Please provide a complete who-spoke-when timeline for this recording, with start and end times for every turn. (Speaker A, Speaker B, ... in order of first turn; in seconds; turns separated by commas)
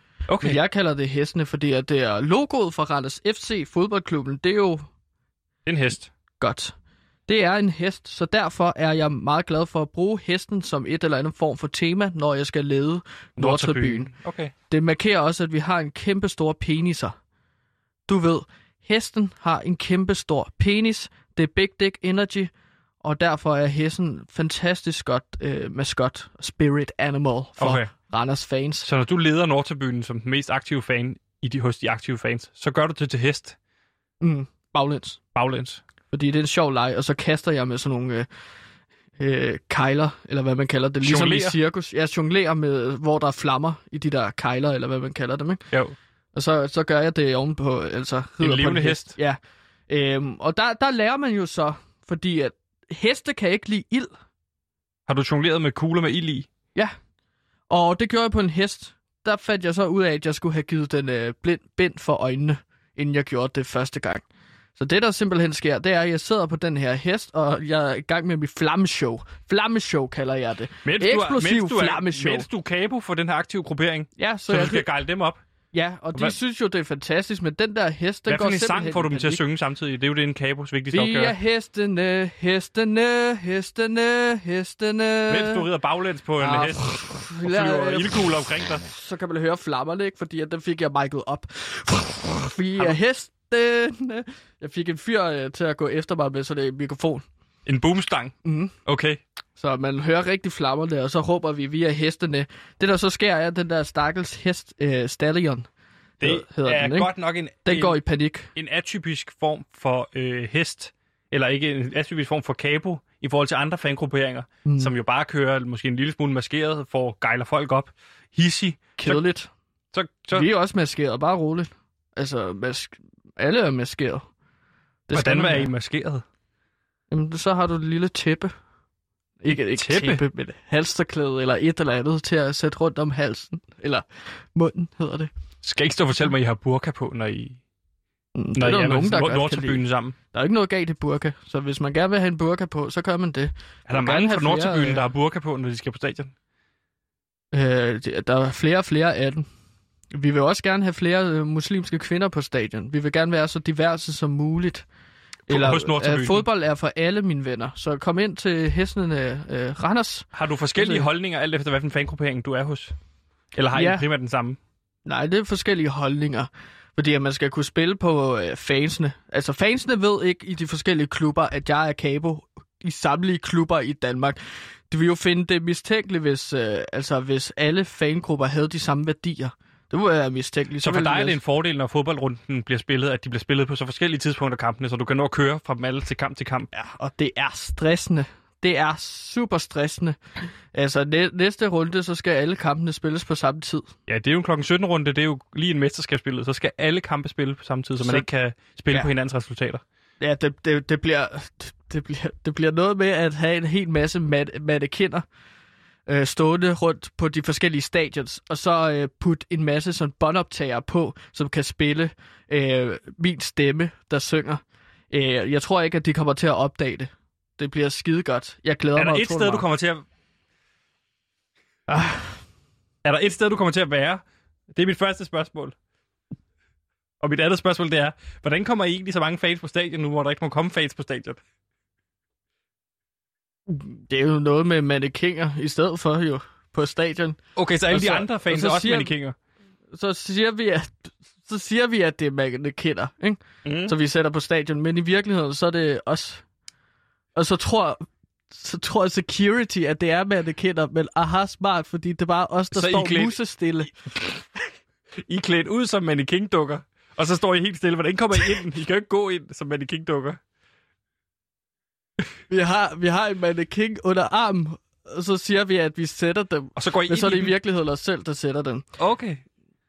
Speaker A: 0.3-0.6, Speaker B: 0.4-4.9, Speaker A: 5.7-6.1, Speaker B: 6.4-6.7, Speaker B: 7.3-14.1, Speaker A: 13.4-14.5, Speaker B: 14.7-17.1, Speaker B: 18.1-22.5, Speaker B: 23.0-28.9, Speaker A: 27.6-27.9, Speaker A: 28.8-33.5, Speaker B: 34.2-35.2, Speaker A: 35.3-35.8, Speaker B: 36.1-38.3, Speaker B: 39.2-45.6, Speaker A: 41.0-41.6, Speaker B: 46.3-54.1, Speaker A: 48.4-49.1, Speaker A: 55.1-56.5, Speaker B: 57.7-64.2, Speaker B: 64.8-72.5, Speaker A: 70.8-75.4, Speaker B: 74.2-74.8, Speaker B: 75.7-79.4, Speaker A: 78.2-81.3, Speaker B: 80.9-85.7, Speaker A: 85.3-88.8, Speaker B: 86.4-97.2, Speaker A: 97.7-99.2, Speaker B: 98.4-98.7, Speaker B: 99.6-105.7, Speaker B: 106.2-107.1, Speaker A: 106.2-108.0, Speaker B: 107.6-108.5, Speaker A: 108.5-119.2, Speaker B: 114.7-114.9, Speaker B: 119.0-119.5, Speaker A: 119.9-120.5, Speaker B: 120.3-124.3, Speaker B: 125.1-125.7, Speaker A: 125.1-126.2, Speaker B: 127.1-128.5, Speaker B: 129.4-135.3, Speaker A: 129.5-130.2, Speaker A: 135.6-137.6, Speaker B: 138.3-139.8, Speaker A: 138.6-140.1, Speaker B: 140.3-145.0, Speaker A: 143.9-146.3, Speaker B: 147.5-149.5, Speaker B: 150.1-154.8, Speaker A: 155.5-156.4, Speaker B: 155.5-161.1, Speaker A: 160.3-162.9, Speaker A: 163.5-164.6, Speaker B: 163.7-164.0, Speaker B: 165.1-181.4, Speaker A: 180.8-186.7, Speaker B: 186.7-193.9, Speaker A: 194.1-199.8, Speaker B: 198.0-198.2, Speaker B: 200.2-205.2, Speaker B: 206.1-219.6, Speaker A: 218.9-220.0, Speaker B: 221.9-222.4, Speaker A: 223.0-225.7, Speaker A: 227.2-231.4, Speaker B: 233.7-237.4, Speaker A: 237.6-239.3, Speaker B: 237.9-239.1, Speaker B: 239.9-246.4, Speaker A: 243.6-243.9, Speaker B: 247.3-253.9, Speaker A: 252.7-253.4, Speaker A: 254.1-254.4, Speaker A: 255.2-260.4, Speaker B: 262.5-268.8, Speaker A: 266.8-267.6, Speaker A: 269.0-269.4